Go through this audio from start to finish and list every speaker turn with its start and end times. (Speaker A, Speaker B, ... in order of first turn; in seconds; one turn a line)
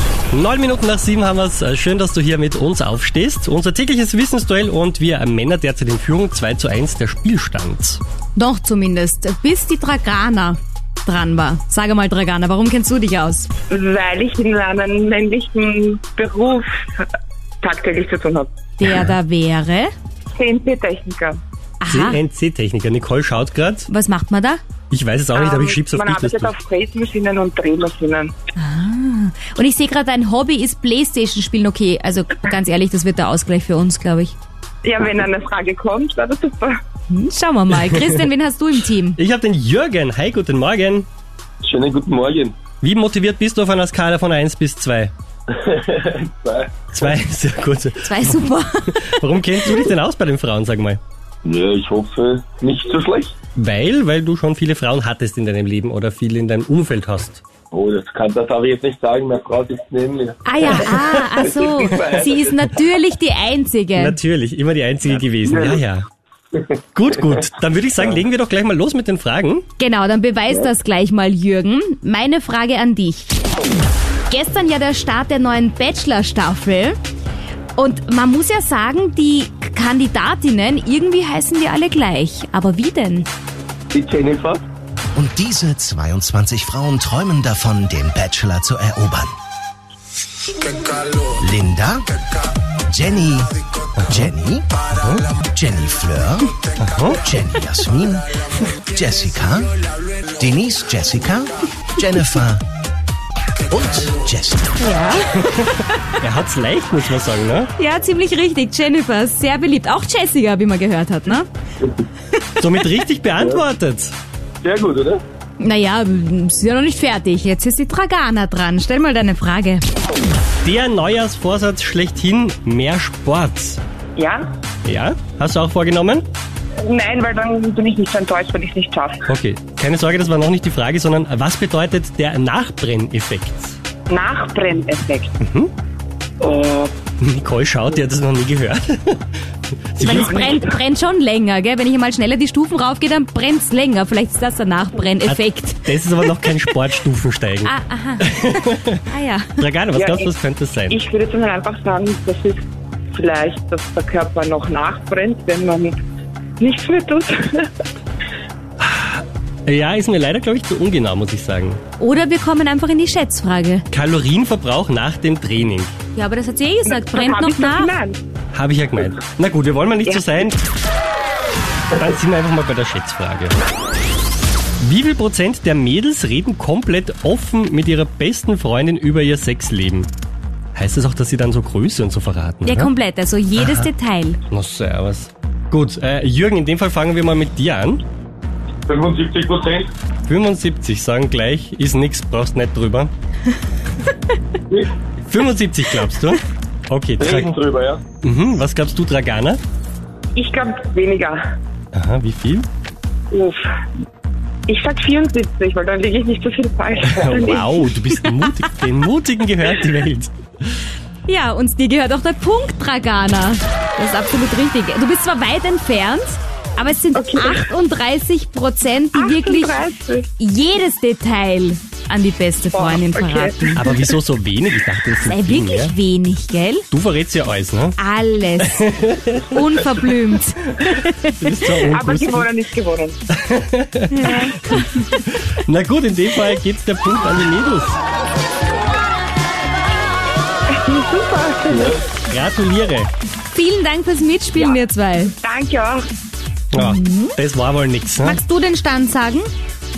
Speaker A: 0.3-8.0
Speaker B: 8.3-13.5
Speaker C: 13.7-17.1
Speaker C: 17.6-18.5
Speaker B: 18.8-19.9
Speaker C: 20.3-21.4
Speaker B: 21.8-22.2
Speaker A: 21.9-23.9
Speaker B: 23.9-24.6
Speaker A: 24.9-26.5
Speaker C: 25.3-28.3
Speaker B: 28.6-34.3
Speaker C: 34.8-36.8
Speaker B: 37.1-39.2
Speaker A: 39.1-41.1
Speaker D: 41.6-42.6
Speaker A: 42.8-45.1
Speaker D: 45.5-46.9
Speaker A: 46.9-51.0
Speaker B: 48.0-49.0
Speaker D: 51.4-53.3
Speaker A: 53.5-57.4
Speaker D: 57.7-62.5
Speaker B: 60.4-64.2
Speaker A: 64.0-66.0
Speaker D: 65.1-65.8
Speaker A: 66.9-69.7
Speaker B: 69.8-73.4
Speaker B: 74.3-77.0
Speaker B: 77.8-83.3
Speaker D: 83.9-84.6
Speaker E: 85.1-89.3
Speaker E: 91.1-92.1
Speaker E: 92.8-94.8
Speaker A: 94.0-94.3
Speaker A: 94.9-95.3
Speaker E: 95.3-99.8
Speaker A: 96.8-97.2
Speaker E: 100.3-102.6
Speaker E: 103.7-104.7
Speaker B: 104.8-106.1
Speaker A: 105.3-107.7
Speaker B: 107.8-111.5
Speaker A: 112.6-114.1
Speaker D: 113.3-113.6
Speaker D: 114.6-115.2
Speaker B: 115.6-119.8
Speaker A: 120.6-123.8
Speaker C: 124.2-124.4
Speaker A: 124.8-126.2
Speaker C: 126.8-129.2
Speaker A: 129.3-133.8
Speaker C: 134.1-135.3
Speaker A: 135.4-135.7
Speaker C: 136.4-136.9
Speaker A: 137.2-139.2
Speaker A: 139.9-140.4
Speaker C: 140.0-140.7
Speaker B: 140.0-146.7
Speaker A: 145.2-149.0
Speaker B: 147.6-149.6
Speaker A: 149.6-151.0
Speaker C: 149.9-150.3
Speaker C: 150.9-155.9
Speaker C: 156.6-157.7
Speaker A: 158.8-161.8
Speaker B: 162.0-163.8
Speaker A: 163.9-165.9
Speaker B: 166.1-167.9
Speaker C: 166.8-168.2
Speaker A: 168.5-170.7
Speaker C: 170.1-170.5
Speaker A: 171.9-173.6
Speaker A: 174.8-180.1
Speaker A: 180.7-182.9
Speaker B: 182.6-184.4
Speaker A: 183.6-183.9
Speaker A: 184.5-188.0
Speaker D: 188.9-189.9
Speaker A: 190.3-193.1
Speaker A: 195.2-197.5
Speaker D: 197.2-198.0
Speaker A: 198.2-199.6
Speaker C: 200.3-201.4
Speaker A: 201.9-202.7
Speaker C: 203.3-203.7
Speaker C: 204.7-207.9
Speaker A: 207.0-210.3
Speaker B: 211.3-219.8
Speaker C: 217.1-217.7
Speaker C: 219.1-220.3
Speaker B: 220.4-224.1
Speaker C: 222.7-223.7
Speaker A: 223.7-225.9
Speaker B: 225.2-226.8
Speaker A: 226.9-228.0
Speaker B: 228.0-231.7
Speaker A: 228.6-230.0
Speaker A: 230.7-232.5
Speaker C: 231.9-233.2
Speaker A: 233.3-238.0
Speaker B: 234.1-235.2
Speaker C: 234.2-234.6
Speaker C: 240.7-242.0
Speaker D: 241.7-242.0
Speaker A: 242.2-243.1
Speaker B: 243.5-245.3
Speaker C: 245.4-246.0
Speaker A: 246.7-248.4
Speaker B: 246.7-247.3
Speaker B: 248.2-249.5